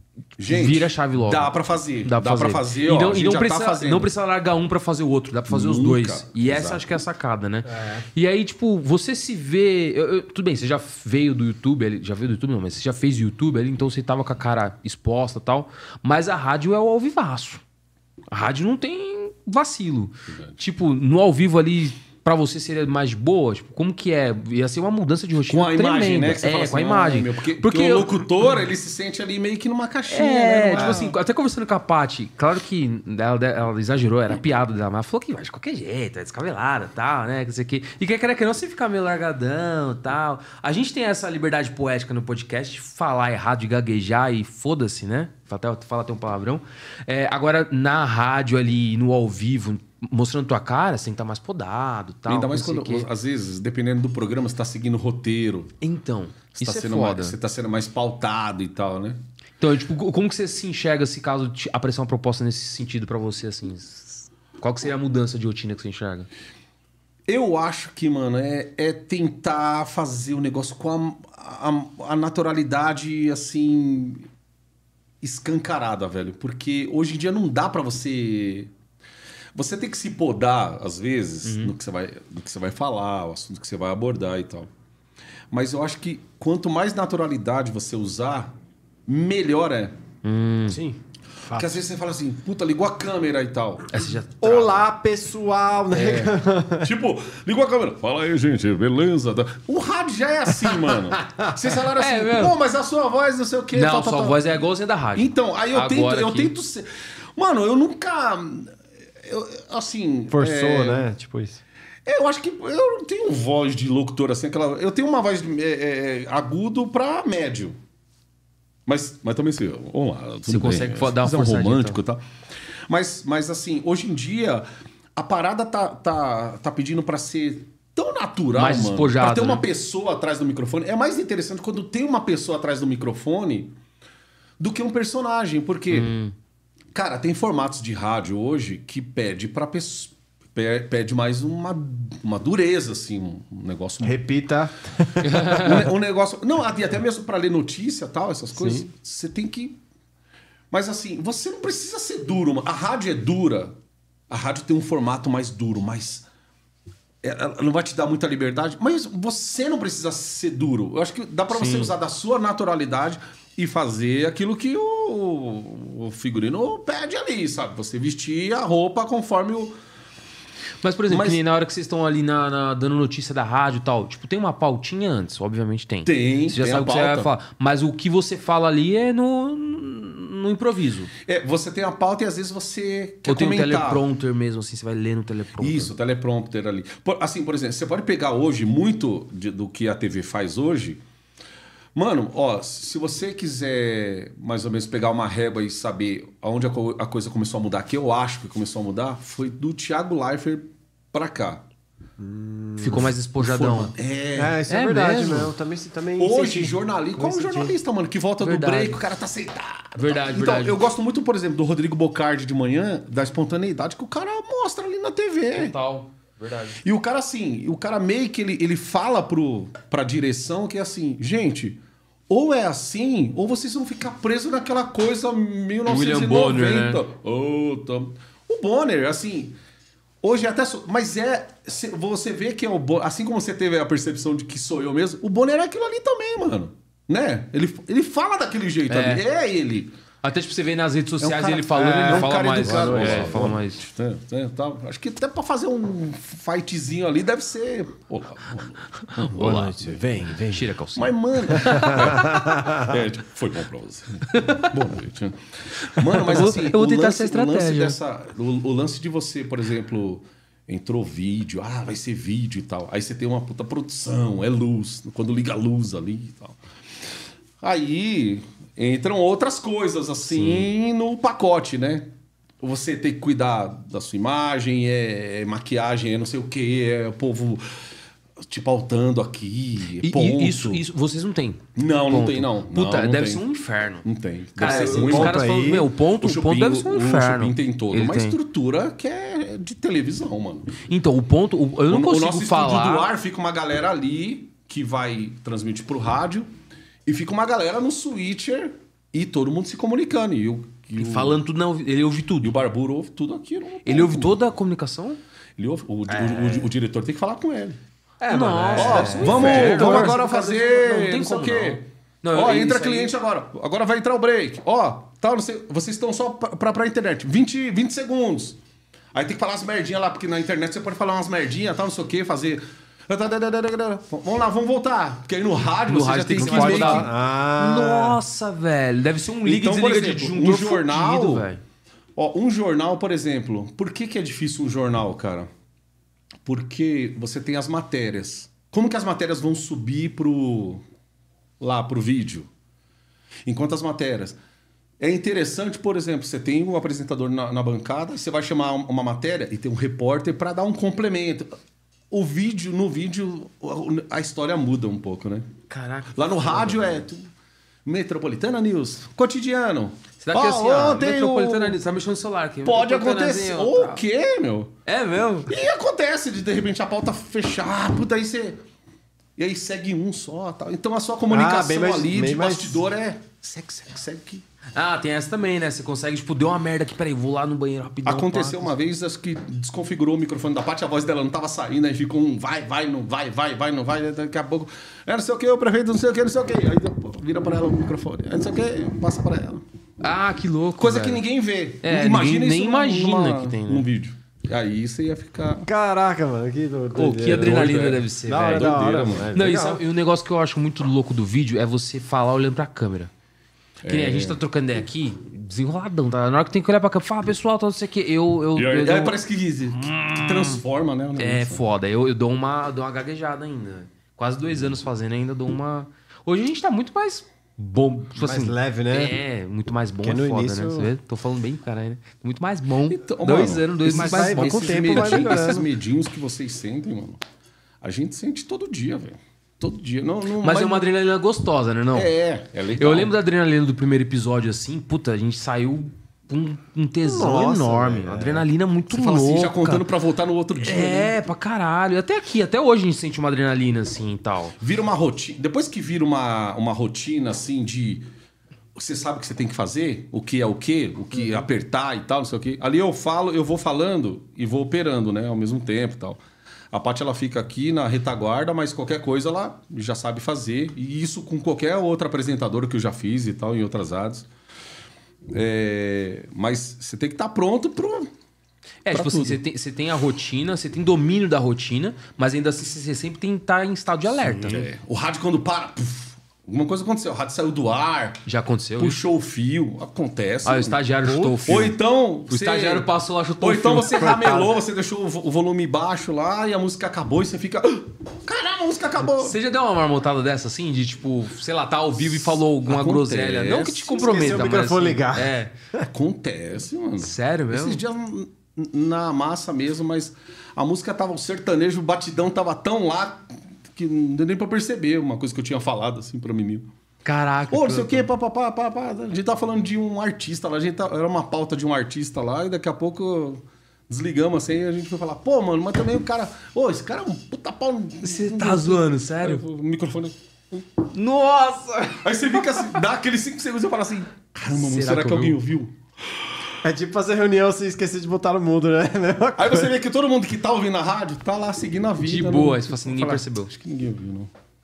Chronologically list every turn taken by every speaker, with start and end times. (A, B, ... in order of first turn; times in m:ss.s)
0:00.4-0:04.1 A
0:00.5-0:01.5 B
0:02.0-0:17.6 B
0:05.5-0:06.8 A
0:07.6-0:08.0 C
0:18.3-0:28.2 B
0:20.3-0:20.6 A
0:25.5-0:31.1 A
0:30.1-0:53.1 B
0:30.8-0:31.1 C
0:52.3-0:55.7 A
0:55.8-0:57.4 B
0:56.6-0:59.2 A
0:59.6-1:06.3 B
1:07.3-1:14.3 A
1:15.2-1:18.7 A
1:19.5-1:24.7 A
1:21.4-1:21.7 B
1:25.5-1:28.5 A
1:29.1-1:29.9 A
1:30.2-1:31.0 B
1:31.4-1:33.8 A
1:33.9-1:34.8 B
1:34.4-1:36.9 C
1:36.8-1:44.4 A
1:40.7-1:41.5 C
1:42.0-1:42.6 B
1:43.7-1:46.5 B
1:45.1-1:51.1 A
1:50.3-1:51.6 C
1:52.0-1:57.8 A
1:58.8-2:02.2 A
2:00.5-2:02.0 B
2:02.9-2:13.7 A
2:08.5-2:09.6 B
2:14.6-2:16.1 A
2:15.9-2:16.3 B
2:16.9-2:24.4 A
2:24.0-2:25.8 C
2:25.2-2:25.9 B
2:25.5-2:29.8 A
2:28.5-2:28.8 C
2:30.7-2:33.7 A
2:34.3-2:36.2 A
2:37.2-2:49.7 A
2:41.5-2:41.9 B
2:50.8-3:01.1 B
2:51.1-2:51.4 A
2:56.0-2:57.3 A
3:01.2-3:04.0 A
3:03.3-3:05.9 B
3:05.6-3:11.0 A
3:11.9-3:21.6 A
3:22.2-3:23.1 C
3:22.8-3:23.9 B
3:22.9-3:24.6 A
3:24.3-3:27.7 C
3:24.7-3:25.5 B
3:26.2-3:35.7 A
3:28.4-3:29.0 B
3:30.0-3:30.8 B
3:35.5-3:36.8 B
3:36.8-3:49.5 A
3:45.9-3:47.0 B
3:50.2-3:59.9 A
3:58.9-3:59.2 B
4:00.2-4:03.8 B
4:01.2-4:10.0 A
4:01.7-4:03.6 C
4:09.2-4:10.7 C
4:09.4-4:09.7 B
4:10.4-4:12.1 B
4:11.0-4:26.6 A
4:11.6-4:12.9 C
4:14.3-4:14.6 B
4:16.0-4:18.0 B
4:27.6-4:32.1 A
4:30.3-4:30.7 B
4:32.6-4:37.7 A
4:38.5-4:40.8 A
4:40.0-4:44.0 B
4:41.8-4:43.4 A
4:44.0-4:45.6 A
4:44.6-4:48.4 B
4:44.6-4:45.9 C
4:46.2-4:50.8 A
4:50.8-4:53.1 B
4:51.9-4:56.5 A
4:57.0-5:01.4 A
5:01.0-5:02.5 B
5:02.4-5:04.4 A
5:03.8-5:05.2 B
5:05.6-5:07.8 A
5:06.1-5:06.7 C
5:08.2-5:13.1 B
5:08.2-5:10.2 C
5:08.7-5:18.6 A
5:19.1-5:27.1 A
5:25.9-5:31.6 B
5:26.4-5:28.2 C
5:29.4-5:31.5 A
5:32.2-5:35.5 A
5:36.4-5:40.8 A
5:41.6-5:42.5 A
5:43.5-5:44.4 A
5:45.0-5:51.5 A
5:52.1-5:55.5 A
5:55.7-5:57.0 B
5:56.1-5:57.2 A
5:57.8-6:01.8 A
6:00.2-6:04.0 B
6:02.6-6:04.7 A
6:04.8-6:05.5 B
6:05.5-6:08.6 A
6:09.4-6:14.4 A
6:11.3-6:12.8 C
6:14.8-6:18.7 B
6:18.0-6:29.6 A
6:30.0-6:31.2 B
6:30.8-6:35.7 A
6:31.8-6:33.8 B
6:35.6-6:37.7 C
6:36.9-6:43.1 B
6:37.2-6:39.3 A
6:38.3-6:39.8 C
6:43.8-6:44.4 A
6:43.8-6:49.2 B
6:48.5-6:51.6 A
6:49.8-6:50.6 B
6:51.2-7:05.6 B
6:58.2-6:59.2 C
7:00.0-7:00.9 C
7:02.9-7:07.2 A
7:03.8-7:05.6 C
7:07.8-7:10.8 A
7:10.4-7:12.1 B
7:11.9-7:13.1 A
7:12.8-7:19.9 B
7:17.0-7:18.4 C
7:18.9-7:21.1 A
7:20.6-7:24.5 B
7:24.6-7:28.0 A
7:28.8-7:36.2 A
7:36.7-7:44.2 A
7:45.3-7:48.1 A
7:48.8-7:54.7 B
7:48.9-7:49.4 A
7:54.2-7:58.2 A
7:58.2-7:59.0 B
7:58.8-8:00.8 A
8:00.4-8:01.8 B
8:01.0-8:01.6 C
8:01.4-8:02.9 A
8:02.3-8:04.5 B
8:03.4-8:09.4 A
8:09.0-8:15.5 B
8:12.0-8:14.7 A
8:14.0-8:15.9 C
8:15.9-8:26.7 A
8:17.0-8:17.8 B
8:27.0-8:28.0 B
8:27.5-8:40.7 A
8:38.0-8:39.4 B
8:40.9-8:42.4 B
8:42.0-8:45.7 A
8:44.5-8:45.4 B
8:46.6-8:49.7 C
8:49.4-8:54.3 A
8:52.0-8:53.5 B